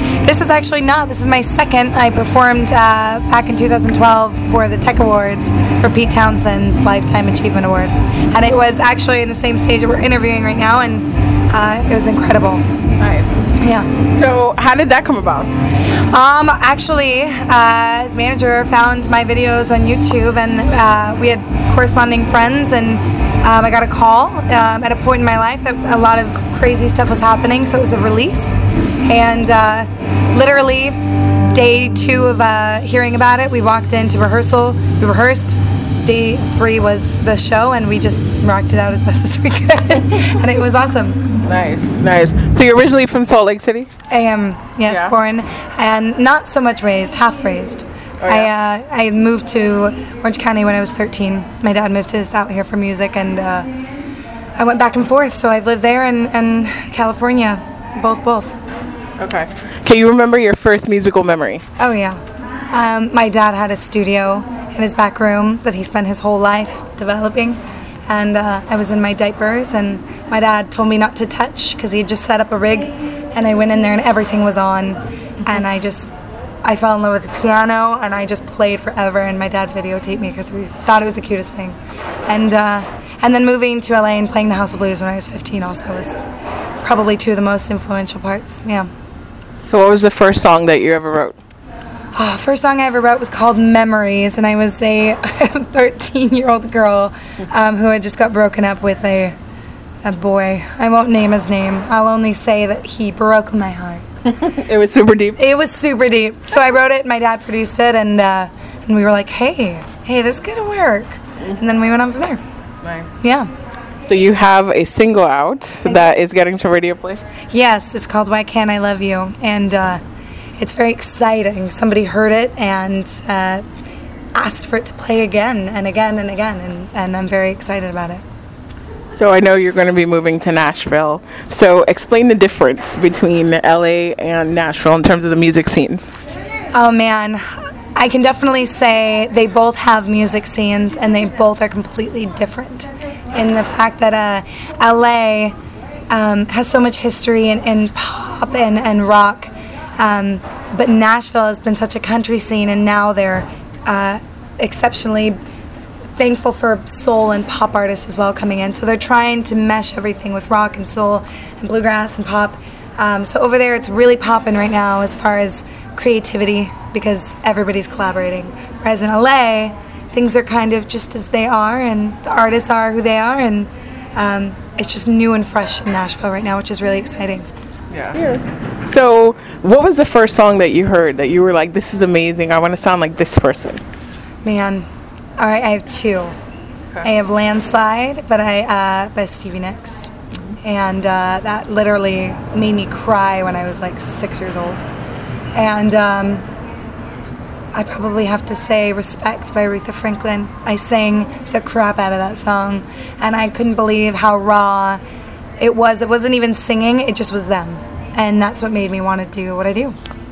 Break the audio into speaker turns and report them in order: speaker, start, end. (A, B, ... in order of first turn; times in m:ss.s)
0:00.2-0:12.6 A
0:13.0-0:13.4 B
0:13.6-0:13.9 A
0:14.0-0:15.5 B
0:16.1-0:41.2 A
0:41.4-0:43.9 B
0:44.1-0:53.7 A
0:44.9-0:45.1 B
0:48.2-0:48.5 B
0:54.6-0:58.6 A
0:59.2-1:01.6 B
1:01.8-1:16.1 A
1:16.6-1:26.2 A
1:26.8-1:28.9 A
1:29.6-1:31.4 B
1:32.1-1:39.3 A
1:40.0-1:44.0 A
1:44.3-1:45.4 B
1:45.4-1:52.4 A
1:52.8-1:53.1 B
1:53.2-1:53.5 A
1:54.0-1:57.2 B
1:57.5-2:00.0 A
2:00.6-2:03.6 A
2:04.3-2:08.2 A
2:09.1-2:16.1 B
2:16.7-2:25.5 A
2:26.1-2:35.4 A
2:36.1-2:57.5 A
2:57.9-3:03.8 B
3:04.4-3:04.9 A
3:05.4-3:06.3 A
3:07.0-3:14.8 A
3:15.5-3:16.4 A
3:17.7-3:25.0 A
3:25.6-3:29.9 A